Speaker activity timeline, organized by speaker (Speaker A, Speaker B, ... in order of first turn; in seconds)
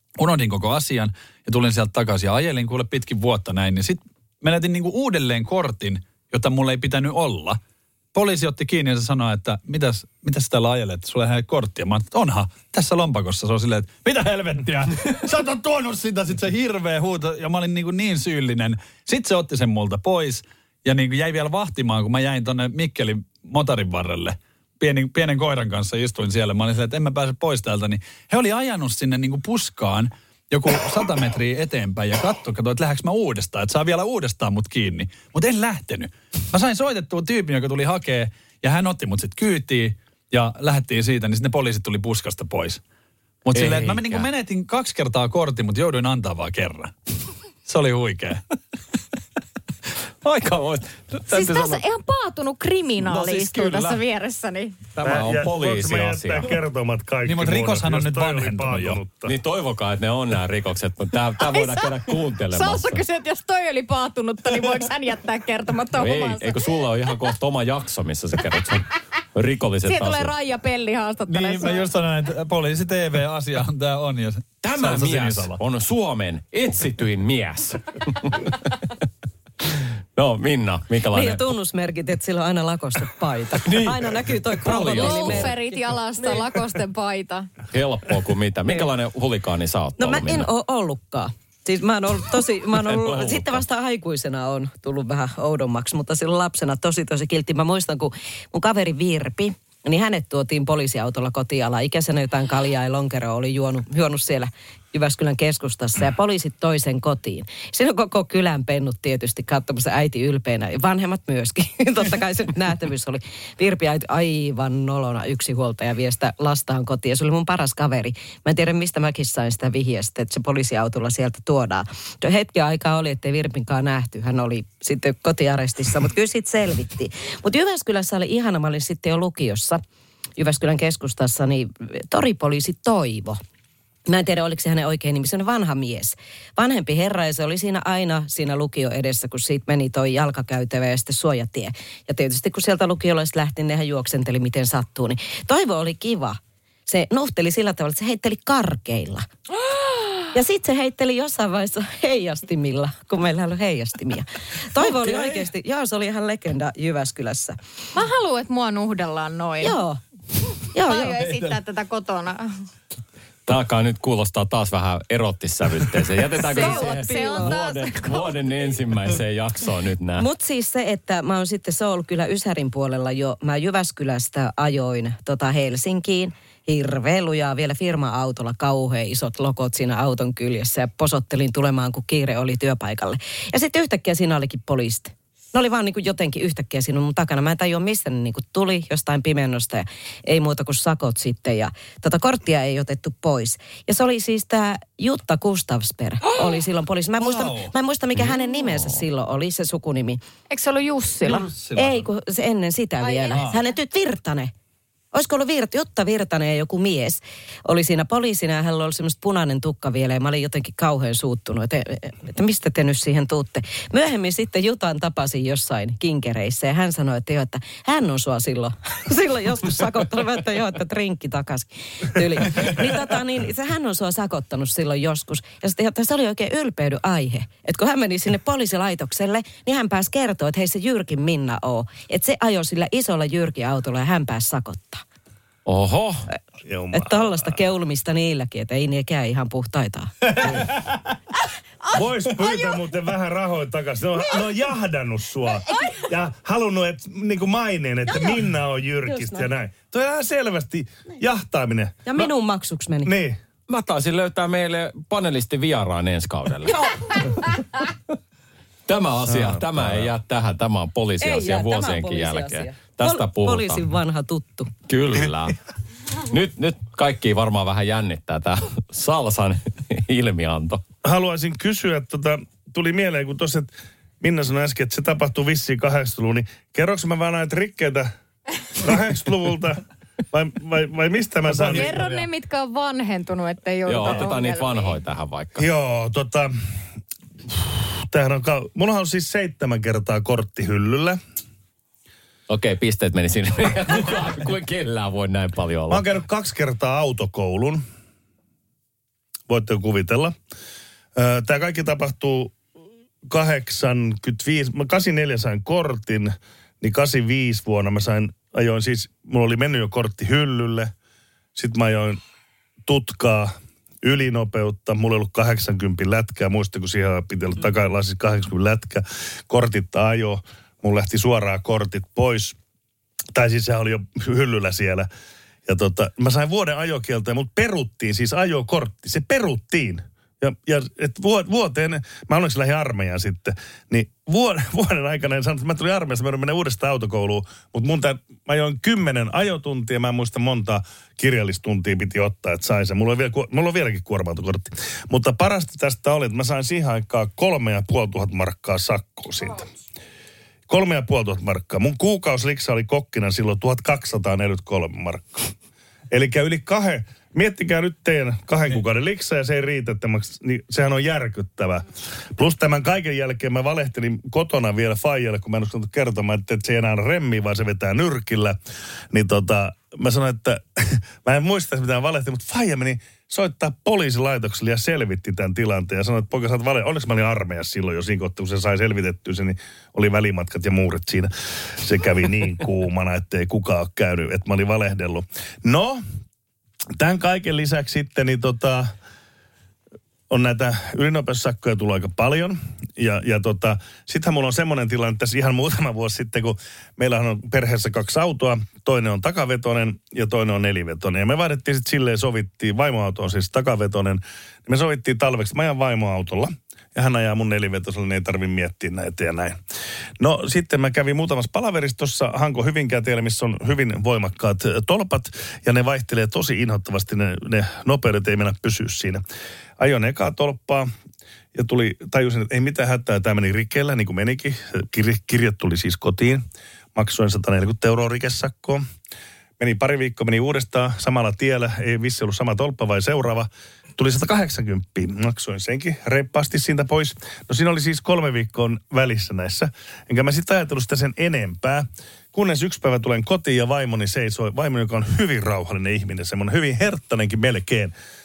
Speaker A: 0.2-7.6, 8.1-42.8, 43.4-46.9, 47.6-48.4, 57.2-59.0, 71.3-75.6, 197.2-197.7, 201.2-202.1, 240.4-241.0, 281.5-282.3
Speaker B: 43.5-44.3, 50.2-51.8, 53.0-54.0, 54.9-56.6, 59.2-63.0, 66.0-70.3, 74.6-78.9, 79.6-81.5, 83.6-85.5, 87.7-90.5, 92.7-93.6, 163.5-170.3, 198.2-199.0, 235.7-236.3, 253.7-256.7, 258.9-263.8, 264.9-265.6, 266.2-270.8, 283.9-285.7, 292.5-296.0
Speaker C: 51.3-54.8, 61.4-61.9, 62.5-66.5, 69.8-71.9, 85.0-87.5, 149.7-150.3, 157.9-159.8, 160.8-162.5, 166.4-168.4, 200.5-201.5, 203.0-203.6, 281.6-285.0
Speaker D: 55.0-59.4, 236.7-237.6, 241.9-252.0, 253.0-253.4, 259.3-260.1, 271.0-278.1, 278.8-281.9, 285.6-286.5, 287.5-291.2, 295.9-297.8, 299.5-300.4, 301.1-302.6, 303.3-310.9, 311.6-312.2, 312.9-322.6, 323.3-325.1, 325.7-349.7, 350.7-355.5, 356.1-368.6, 369.1-386.0, 387.0-388.9, 390.3-409.6, 410.2-419.2, 419.8-420.9, 421.5-426.4, 427.0-428.8, 429.6-447.9
Speaker E: 81.1-85.7, 90.0-129.8, 130.4-133.4, 134.1-149.3, 150.3-157.6, 159.6-160.0, 160.7-161.2, 166.3-167.6, 170.2-200.2, 201.8-204.5, 205.1-235.0, 236.9-240.3, 249.1-249.5, 252.1-253.1, 256.7-257.1, 261.2-264.7